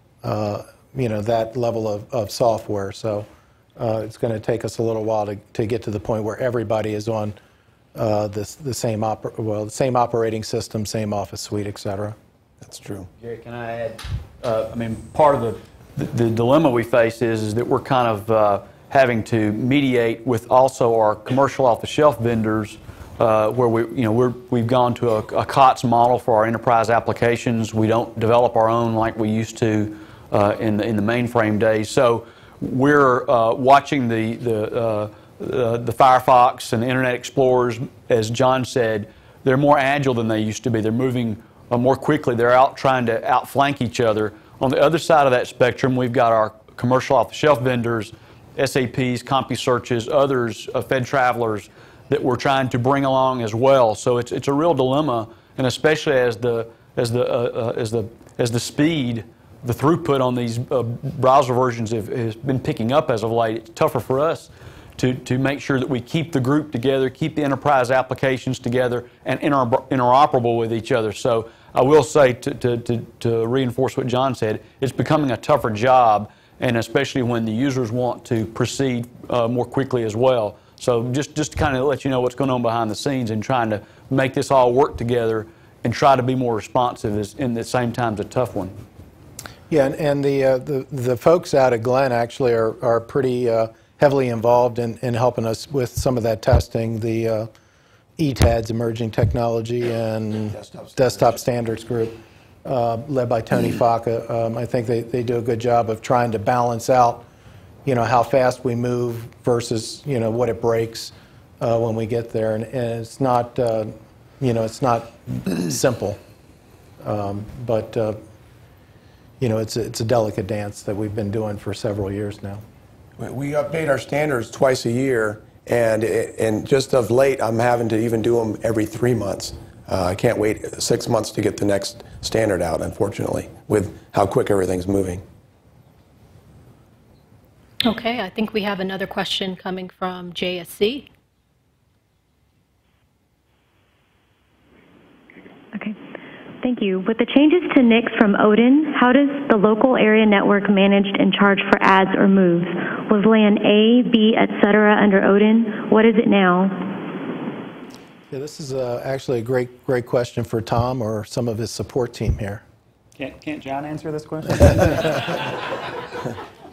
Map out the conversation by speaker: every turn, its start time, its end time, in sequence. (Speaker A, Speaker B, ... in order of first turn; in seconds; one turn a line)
Speaker A: 0.2-7.3
Speaker A: 7.9-12.2
Speaker B: 12.6-13.1
Speaker C: 13.2-88.7
Speaker A: 89.7-97.5
Speaker A: 98.2-107.2
Speaker B: 100.5-101.4
Speaker A: 107.8-116.2
Speaker A: 117.0-118.2
Speaker A: 119.4-122.6
Speaker B: 123.2-135.2
Speaker D: 137.8-141.1
Speaker E: 146.6-157.0
Speaker A: 158.3-162.6
Speaker F: 163.2-165.6